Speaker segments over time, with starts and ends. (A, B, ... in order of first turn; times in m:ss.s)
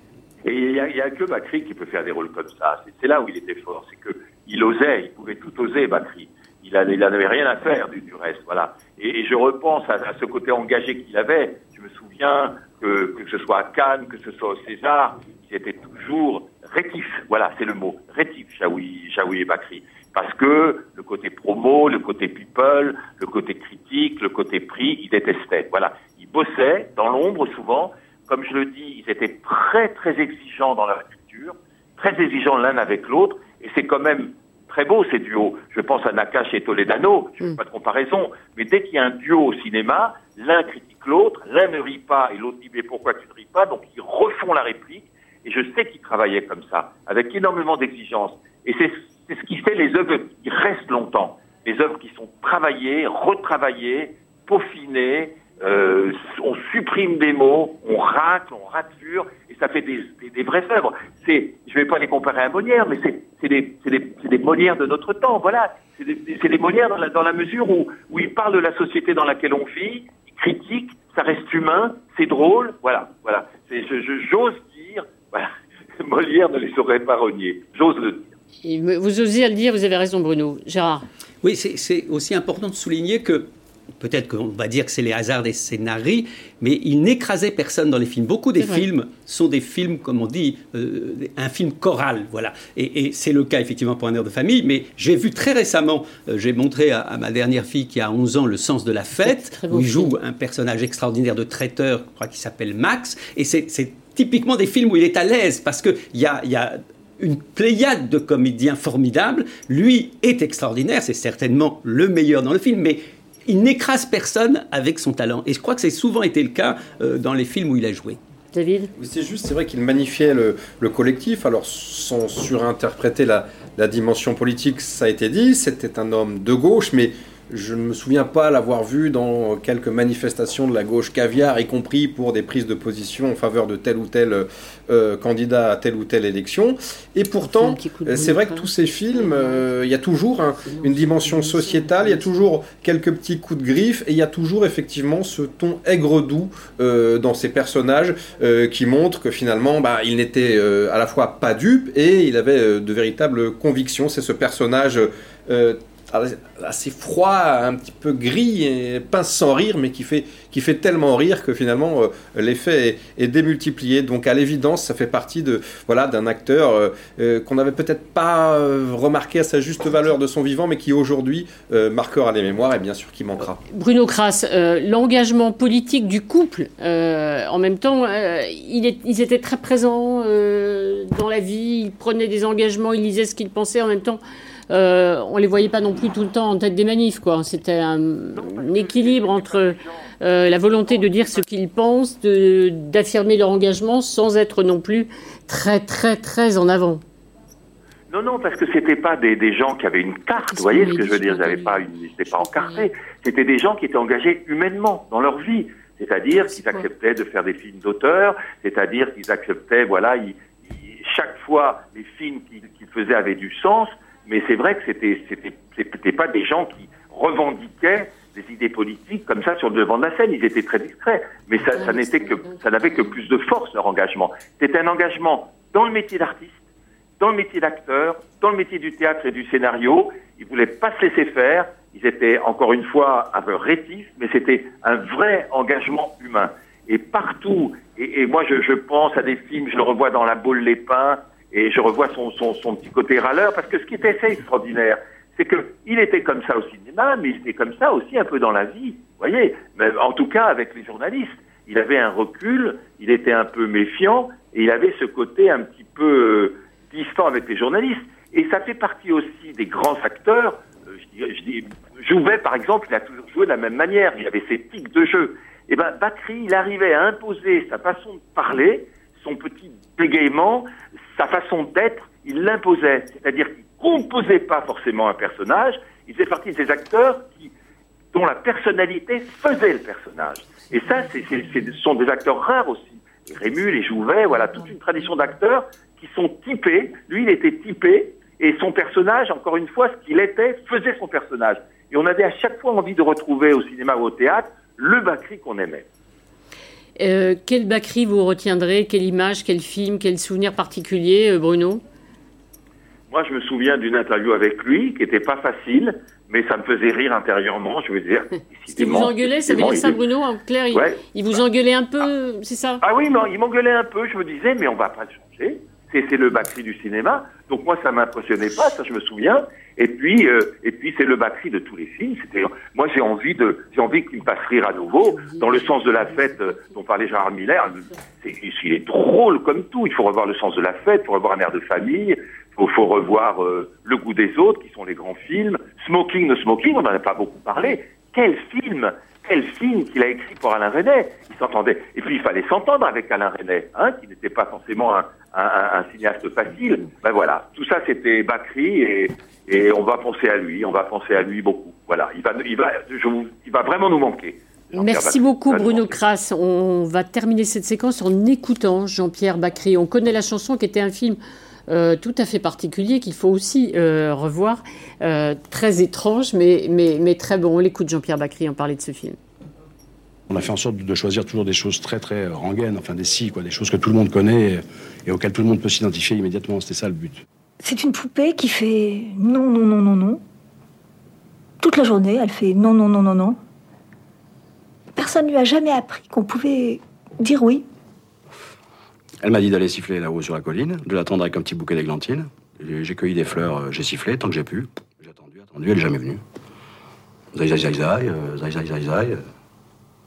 0:00.4-1:18.3 A
1:18.6-1:21.0 B
1:21.4-1:58.2 C
1:28.6-1:28.9 B
1:39.2-1:40.2 B
1:58.5-1:58.9 B
1:59.0-2:53.6 D
2:17.4-2:18.7 B
2:20.8-2:22.2 B
2:53.7-3:17.0 B
3:08.4-3:10.0 A
3:18.1-3:46.6 A
3:20.4-3:22.9 B
3:26.5-3:26.8 B
3:41.8-3:42.6 B
3:47.2-4:37.5 A
4:38.1-4:55.9 A
4:57.0-5:01.8 B
5:03.1-5:10.0 A
5:08.7-5:12.8 B
5:10.7-5:11.4 A
5:12.8-5:56.0 A
5:54.7-6:09.2 B
6:10.3-6:17.2 E
6:17.6-6:20.2 F
6:21.6-6:23.4 F
6:25.0-6:27.7 F
6:29.2-6:36.2 E
6:37.3-6:39.2 E